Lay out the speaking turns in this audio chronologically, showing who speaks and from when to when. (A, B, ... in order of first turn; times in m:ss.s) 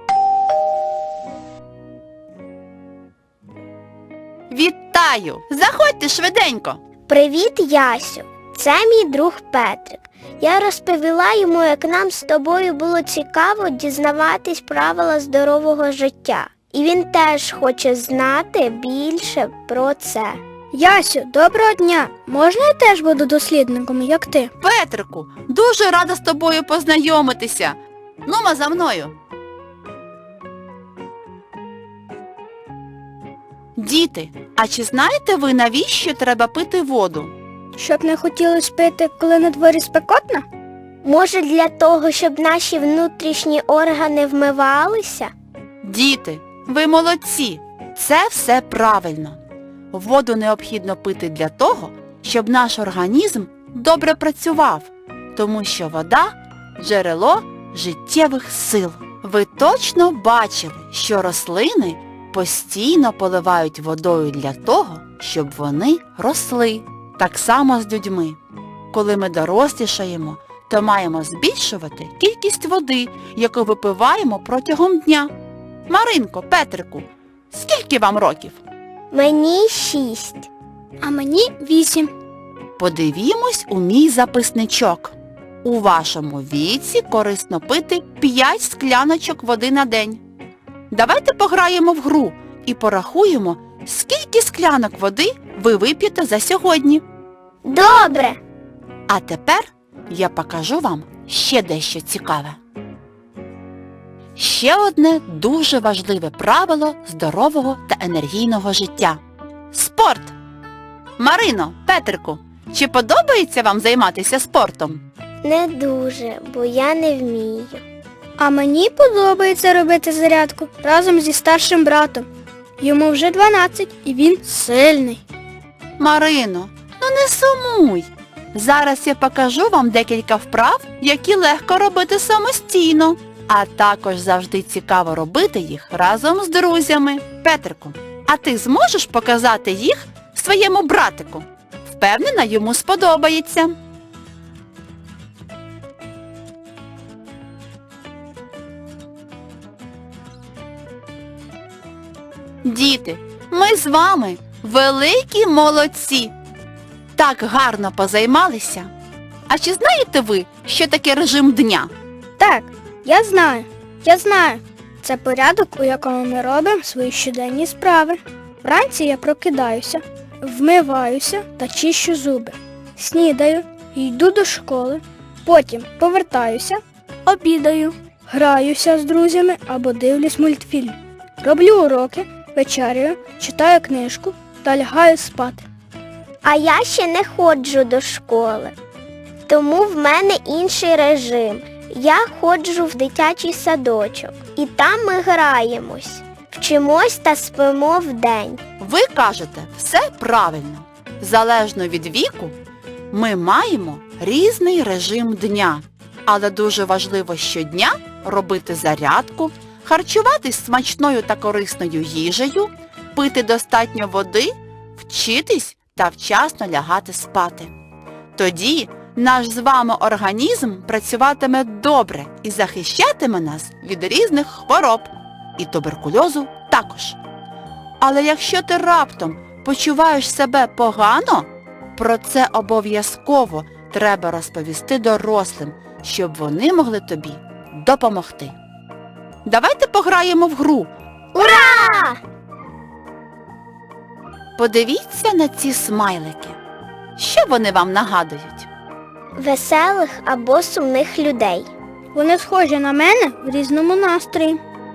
0:04.5-0:06.8 A
0:07.1-0:20.4 B
0:20.7-0:24.5 C
0:24.6-0:29.2 A
0:33.8-0:37.3 A
0:37.8-0:40.4 C
0:41.0-0:45.3 B
0:45.8-0:49.4 A
0:49.9-1:08.4 A
1:08.9-1:15.3 A
1:15.9-1:18.6 A
1:19.1-1:20.5 B
1:21.0-1:22.1 C
1:22.8-1:30.2 A
1:30.9-1:37.0 A
1:37.6-1:38.4 B
1:39.1-1:42.6 A
1:44.4-1:49.2 A
1:49.7-1:50.3 A
1:51.2-1:55.0 A
1:55.4-1:57.8 B
1:58.4-2:02.3 C
2:02.8-2:05.2 C
2:06.0-2:23.8 A
2:32.6-2:36.3 A
2:37.2-2:38.9 A
2:39.5-2:41.9 A
2:42.4-3:05.6 C
3:06.4-3:08.7 B
3:09.4-3:18.6 B
3:18.8-3:22.6 A
3:23.1-3:37.7 A
3:38.4-3:47.2 A
3:48.0-3:58.6 A
3:59.4-4:01.7 A
4:01.3-4:02.2 B
4:04.6-4:06.6 A
4:07.2-4:08.7 A
4:09.4-4:11.7 B
4:12.1-4:14.6 C